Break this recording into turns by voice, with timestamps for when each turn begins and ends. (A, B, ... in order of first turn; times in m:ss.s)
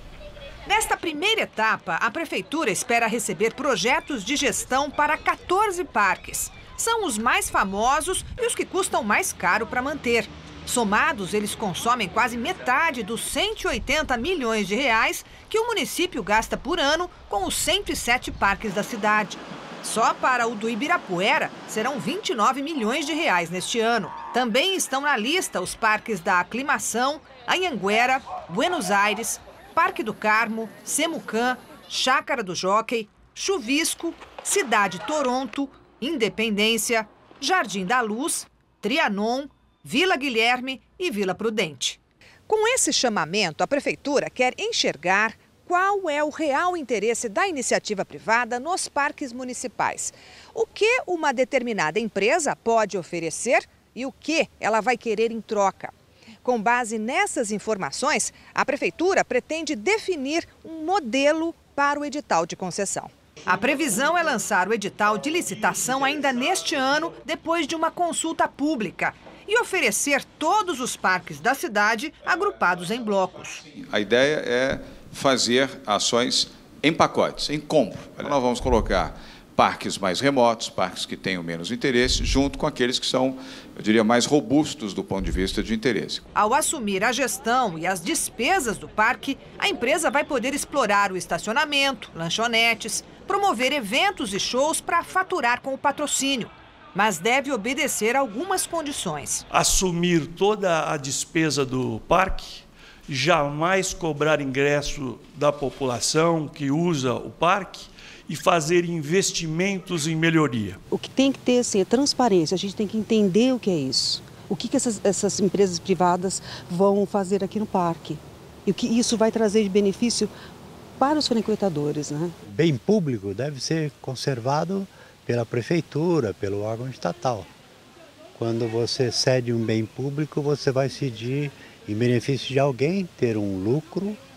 0:00.6-1:13.6 A
1:13.8-1:26.2 B
1:26.3-1:39.4 A
1:39.5-1:50.8 C
1:50.9-2:00.3 D
2:01.0-2:02.4 D
2:02.4-2:07.5 E
2:08.3-2:14.2 E